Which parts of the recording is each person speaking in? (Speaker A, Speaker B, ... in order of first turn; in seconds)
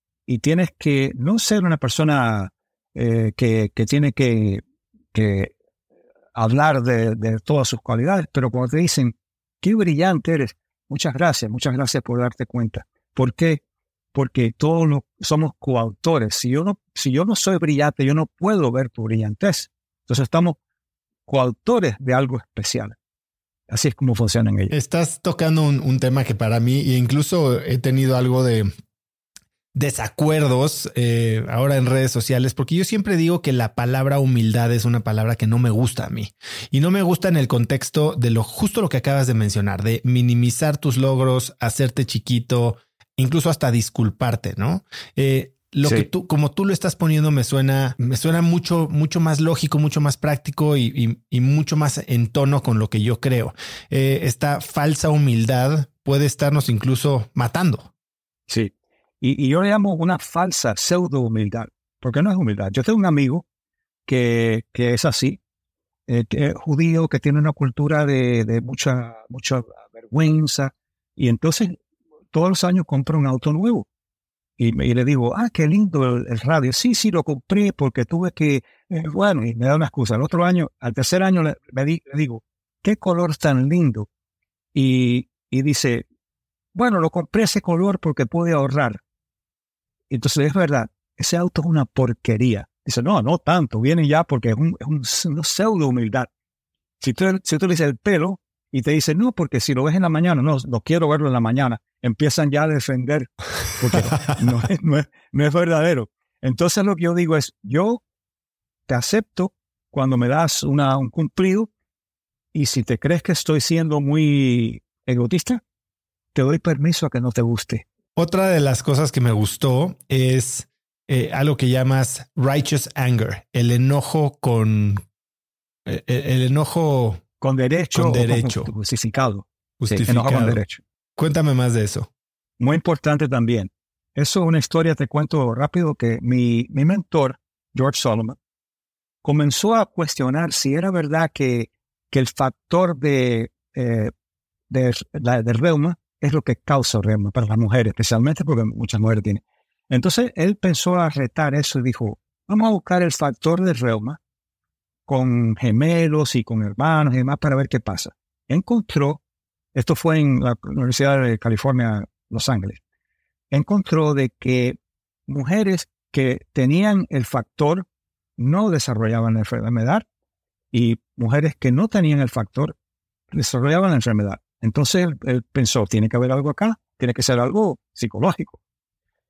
Speaker A: 0.3-4.6, 5.1-5.5, 6.3-13.6, 14.1-20.6, 21.3-23.0, 23.7-24.7, 58.5-63.5, 64.1-65.4, 66.1-71.8, 72.3-73.9, 74.6-84.1, 84.7-86.1, 86.7-89.0, 90.1-96.3, 97.0-108.0, 108.9-111.7, 112.5-115.6, 116.3-117.8, 127.4-130.8, 132.6-138.4, 139.2-144.1, 144.7-154.2, 155.1-159.2, 159.8-162.8, 163.5-167.8, 168.4-170.1, 170.7-172.7, 173.3-178.6
Speaker B: 24.7-28.7, 29.8-57.9, 118.2-125.0, 125.9-127.2, 127.9-128.7, 129.8-130.6, 131.2-132.1